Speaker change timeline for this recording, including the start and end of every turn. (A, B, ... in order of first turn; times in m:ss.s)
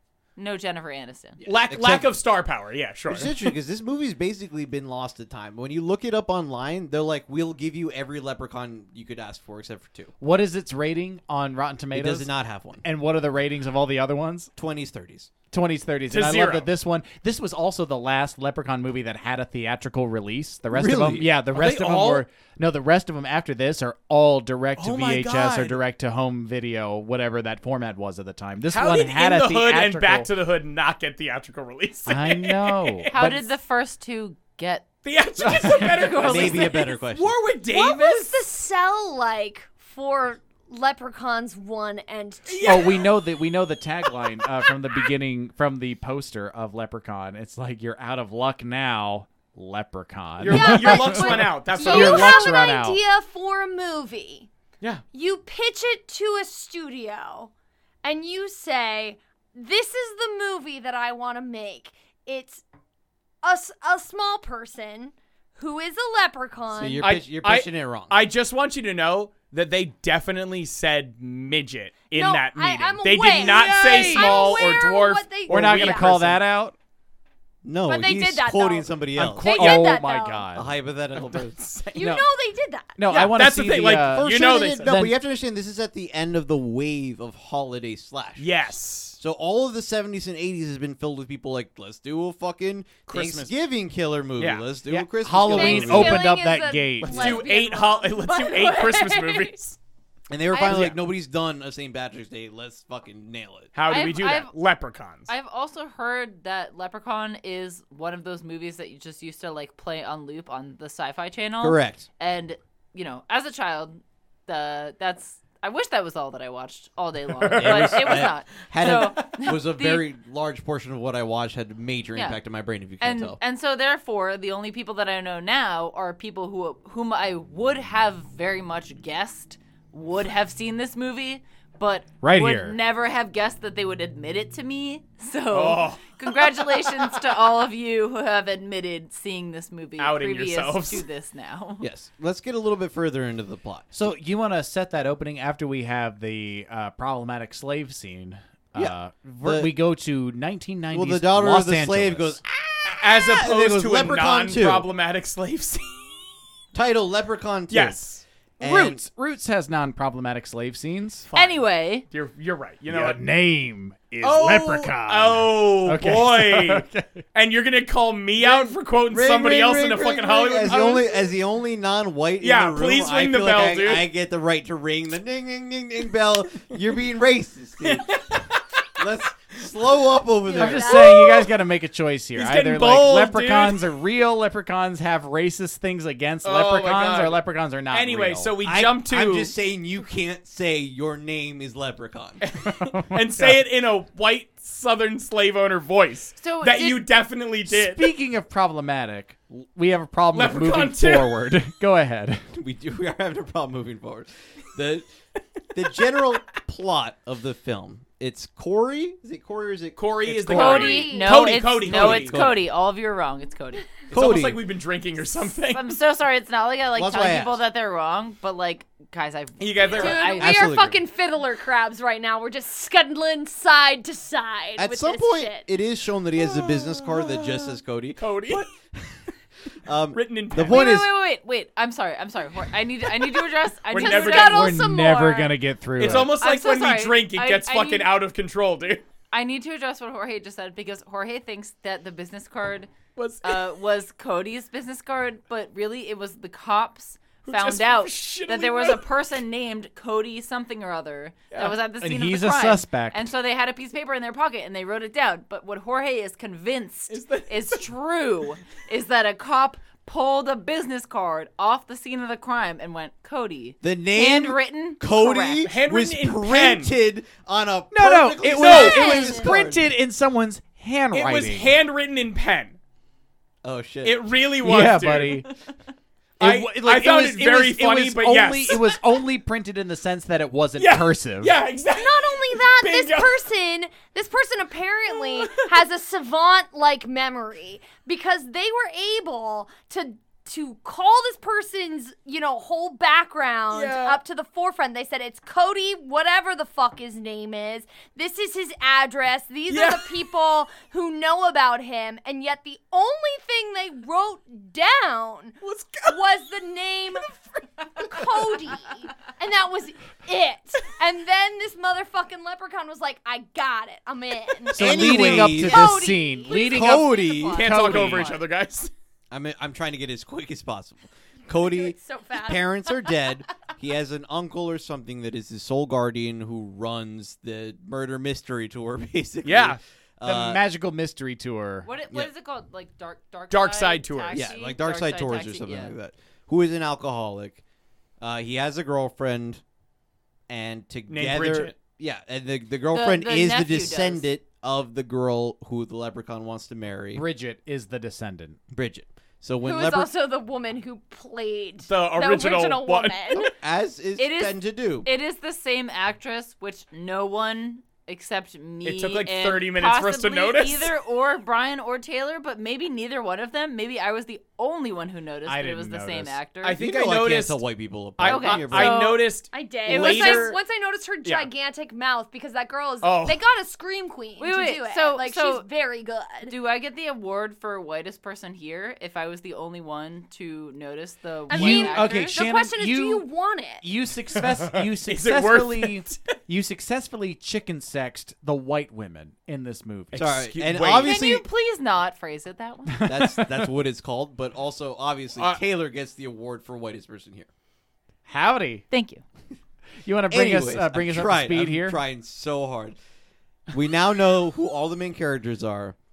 0:00.4-0:01.4 A
0:01.4-0:02.1 B
0:01.4-0:03.5 C
0:03.1-0:10.1 B
0:10.2-0:12.3 D
0:11.9-0:12.8 B
0:12.8-0:14.5 D
0:14.6-0:15.3 B
0:15.5-0:30.3 D
0:16.1-0:16.7 C
0:20.7-0:21.3 B
0:21.5-0:22.2 C
0:24.8-0:25.8 C
0:28.7-0:33.1 C
0:32.0-0:33.4 D
0:33.1-0:34.9 A
0:35.0-0:38.4 C
0:35.4-0:36.1 D
0:35.5-0:36.9 A
0:36.2-0:37.3 B
0:37.7-0:43.0 E
0:42.5-0:43.1 C
0:42.6-0:53.0 D
0:50.4-0:52.6 C
0:50.5-0:54.5 E
0:55.1-0:57.5 E
0:58.0-1:02.6 E
1:03.4-1:07.1 E
1:06.7-1:08.1 B
1:07.0-1:16.4 C
1:12.1-1:16.2 E
1:13.3-1:14.7 D
1:15.5-1:16.8 D
1:17.6-1:19.9 B
1:17.8-1:20.5 E
1:19.2-1:20.7 D
1:20.5-1:21.9 B
1:21.1-1:21.9 C
1:21.9-1:23.0 E
1:22.0-1:22.2 D
1:23.0-1:25.2 D
1:23.1-1:24.9 C
1:24.0-1:28.5 B
1:28.4-1:29.2 C
1:29.2-1:36.3 B
1:33.1-1:33.5 C
1:34.4-1:34.6 C
1:34.9-1:37.4 D
1:35.4-1:39.6 E
1:37.0-1:39.8 C
1:40.3-1:43.7 B
1:40.5-1:40.9 E
1:40.6-1:41.0 C
1:43.7-1:45.3 C
1:43.9-1:44.5 A
1:45.3-2:00.1 A
1:51.6-1:52.0 B
1:57.4-1:58.3 C
1:57.5-2:03.4 B
2:02.1-2:02.4 A
2:03.0-2:21.8 A
2:12.2-2:12.8 D
2:15.5-2:17.1 C
2:20.0-2:21.0 C
2:21.8-2:23.9 B
2:23.9-2:32.4 D
2:28.8-2:29.7 B
2:30.9-2:34.9 B
2:32.9-2:36.1 C
2:36.7-2:38.0 B
2:37.7-2:38.2 C
2:38.6-2:39.0 B
2:38.6-2:41.3 D
2:41.3-2:43.2 C
2:41.3-2:42.0 A
2:42.9-2:47.2 D
2:44.2-2:51.3 C
2:48.4-2:58.4 B
2:52.4-2:54.1 C
2:57.8-2:58.6 C
2:59.0-3:01.2 B
3:00.4-3:01.5 E
3:00.5-3:08.5 D
3:02.3-3:03.9 C
3:06.4-3:09.5 C
3:08.6-3:12.4 B
3:12.4-3:18.1 C
3:12.6-3:13.6 D
3:16.4-3:17.0 A
3:17.7-3:22.4 D
3:20.3-3:21.4 C
3:22.5-3:25.1 B
3:25.7-3:31.0 B
3:30.0-3:32.5 C
3:30.5-3:33.9 A
3:30.6-3:31.6 E
3:31.8-3:32.6 B
3:34.1-3:36.0 C
3:34.1-3:34.6 B
3:35.7-3:40.7 A
3:36.9-3:37.6 B
3:39.6-3:40.4 C
3:39.9-3:45.7 E
3:40.4-3:41.0 B
3:44.8-3:49.2 B
3:46.4-3:48.7 C
3:49.8-3:51.1 B
3:50.1-3:50.9 C
3:50.7-3:54.8 A
3:53.9-3:54.8 C
3:53.9-3:55.6 E
3:54.4-3:56.3 D
3:56.0-3:59.0 C
3:56.0-3:58.1 A
3:59.3-4:02.9 A
4:03.2-4:03.8 C
4:03.4-4:25.7 A
4:07.4-4:09.1 C
4:11.5-4:11.8 C
4:12.0-4:13.3 D
4:17.1-4:17.8 C
4:23.8-4:29.8 B
4:25.6-4:26.9 C
4:27.9-4:31.7 D
4:28.5-4:29.1 C
4:28.6-4:29.5 E
4:31.1-4:32.8 C
4:33.6-4:34.2 B
4:34.0-4:35.5 C
4:34.6-4:35.5 D
4:36.4-4:41.6 D
4:36.4-4:38.9 C
4:40.8-4:43.4 C
4:41.9-5:17.8 E
4:45.2-4:45.6 C
4:53.7-4:54.2 C
4:59.7-5:00.2 C
5:05.6-5:06.2 C
5:14.7-5:18.4 D
5:14.8-5:17.7 B
5:17.3-5:18.4 A
5:17.5-5:18.9 C
5:19.3-5:30.6 B
5:21.6-5:23.2 E
5:29.4-5:29.8 C
5:30.2-5:31.9 D
5:31.8-5:36.0 A
5:33.5-5:34.4 C
5:34.3-5:37.6 B
5:38.2-5:39.6 B
5:40.5-5:47.2 B
5:41.1-5:41.8 C
5:42.9-5:44.3 A
5:47.1-5:48.6 D
5:48.7-5:50.1 B
5:49.6-5:53.5 E
5:51.9-5:53.4 C
5:53.4-5:55.1 B
5:54.2-6:06.8 A
5:58.8-6:00.9 C
6:05.4-6:06.4 D
6:06.6-6:07.6 C
6:06.8-6:09.0 B
6:08.2-6:10.6 C
6:08.2-6:09.2 A
6:09.4-6:16.5 E
6:09.9-6:10.6 A
6:13.0-6:13.4 C
6:14.4-6:15.7 A
6:16.4-6:22.4 A
6:21.5-6:23.8 E
6:21.5-6:23.3 D
6:23.8-6:30.4 D
6:24.4-6:26.3 C
6:30.1-6:31.2 C
6:30.1-6:31.4 B
6:31.0-6:33.0 A
6:32.9-6:33.7 D
6:33.0-6:37.5 B
6:35.4-6:35.6 C
6:38.3-6:38.8 D
6:38.9-6:39.2 A
6:40.0-6:42.0 D
6:40.3-6:43.0 B
6:43.7-6:45.9 B